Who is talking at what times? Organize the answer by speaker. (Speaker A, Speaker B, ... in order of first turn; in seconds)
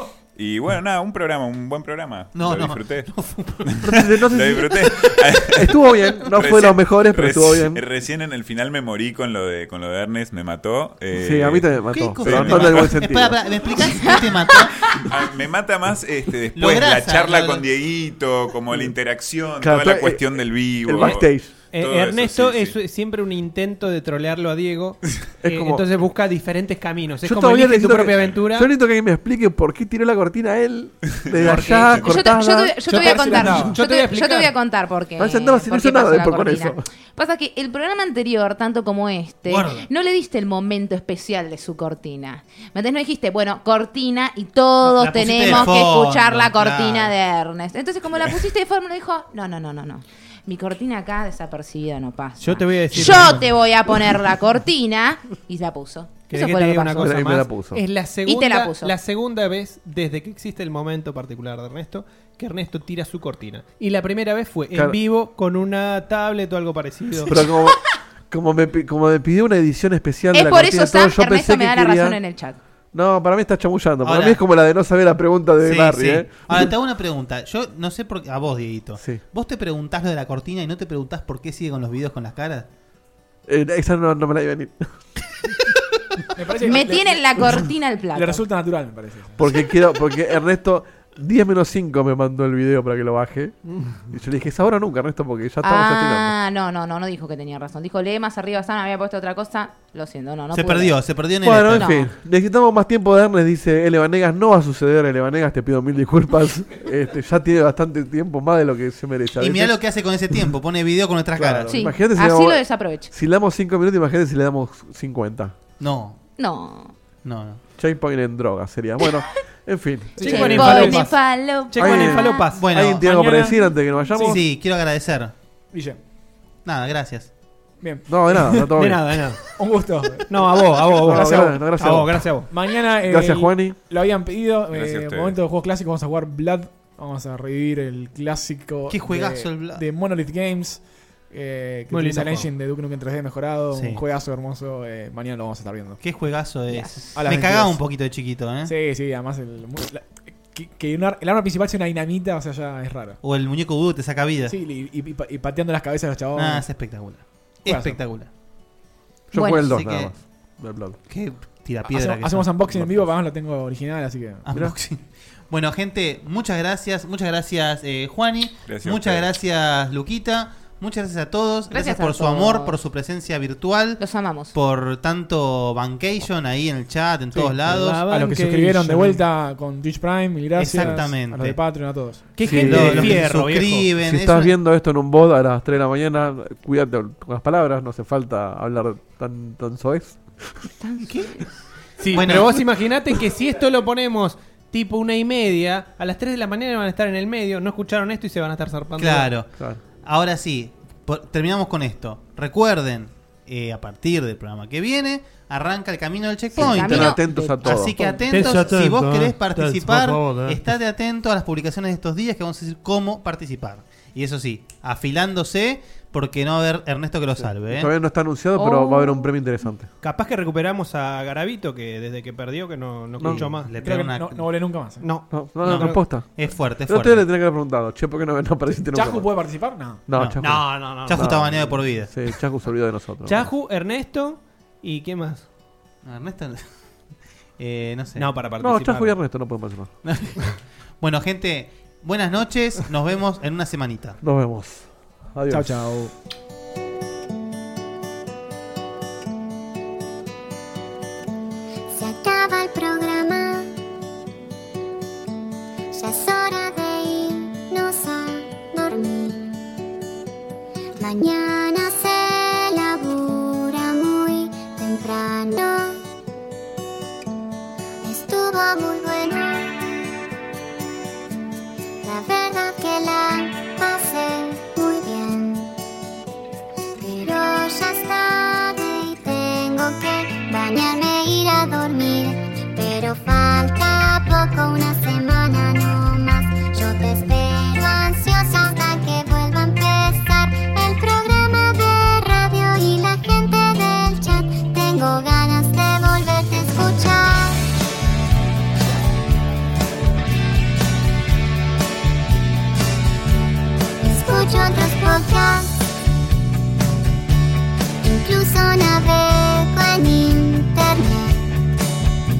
Speaker A: 0.3-13.3, 15.0-22.7, 31.3-32.0, 134.7-135.4, 168.7-169.3
Speaker B: 2.3-3.8, 11.9-15.0, 16.5-17.7, 39.5-39.9, 44.8-47.1, 74.0-74.4, 75.6-82.7, 100.5-101.9, 109.4-111.8, 115.8-116.2, 117.2-117.6, 122.5-123.6, 124.2-125.3, 126.6-127.3, 138.9-139.8, 143.7-144.0, 146.0-148.7, 153.2-154.5, 156.3-158.3, 159.6-160.1, 161.1-162.5, 164.4-178.0, 180.6-181.6, 182.3-184.6, 192.1-192.6, 199.0-217.9, 223.2-224.5, 225.6-227.3, 230.1-232.3, 236.0-236.6, 237.6-238.3, 240.0-240.3, 241.0-244.2
Speaker C: 3.8-7.8, 11.2-13.6, 19.6-21.5, 25.4-25.8, 27.2-32.9, 35.2-36.8, 57.0-57.8, 67.3-67.8, 68.3-72.2, 72.9-76.7, 83.5-84.8, 89.4-96.3, 101.4-109.8, 111.3-115.5, 117.8-120.9, 121.8-124.4, 128.1-129.1, 131.0-132.5, 133.0-133.8, 159.3-161.0, 162.7-163.0, 182.4-183.3, 184.0-190.6, 206.6-207.9, 217.7-219.9, 223.2-223.4, 225.3-229.3, 230.1-233.5, 238.6-239.9, 244.2-245.9
Speaker D: 21.7-28.7, 31.5-31.9, 32.8-34.5, 52.4-53.6, 56.3-67.4, 120.2-122.6, 128.8-129.4, 130.3-132.5, 141.9-142.5, 177.3-179.2, 182.3-183.9, 192.0-199.4, 208.3-210.6, 220.0-223.7, 225.0-226.0, 230.4-231.6, 233.2-235.4, 238.2-239.2
Speaker E: 31.4-57.2, 58.2-58.9, 70.3-72.6, 86.6-88.4, 95.6-101.0, 101.6-102.1, 111.7-113.1, 116.4-116.9, 120.2-122.5, 146.7-147.1, 159.3-159.8, 171.7-172.7, 174.0-174.5, 190.8-191.5, 206.5-208.6, 218.5-219.5
Speaker F: 32.9-33.8, 86.3-87.6, 88.1-89.4, 123.0-124.4, 125.7-126.0, 127.8-128.7, 129.6-131.9, 132.5-146.0, 147.1-147.8, 148.7-153.2, 154.4-156.7, 157.7-158.0, 161.9-164.4, 178.1-182.3, 223.8-225.0, 228.9-230.0, 245.5-246.1
Speaker G: 251.9-253.7, 255.9-259.6, 261.0-266.0, 268.0-269.8, 272.0-275.7, 277.0-297.6, 304.0-305.7, 308.0-311.4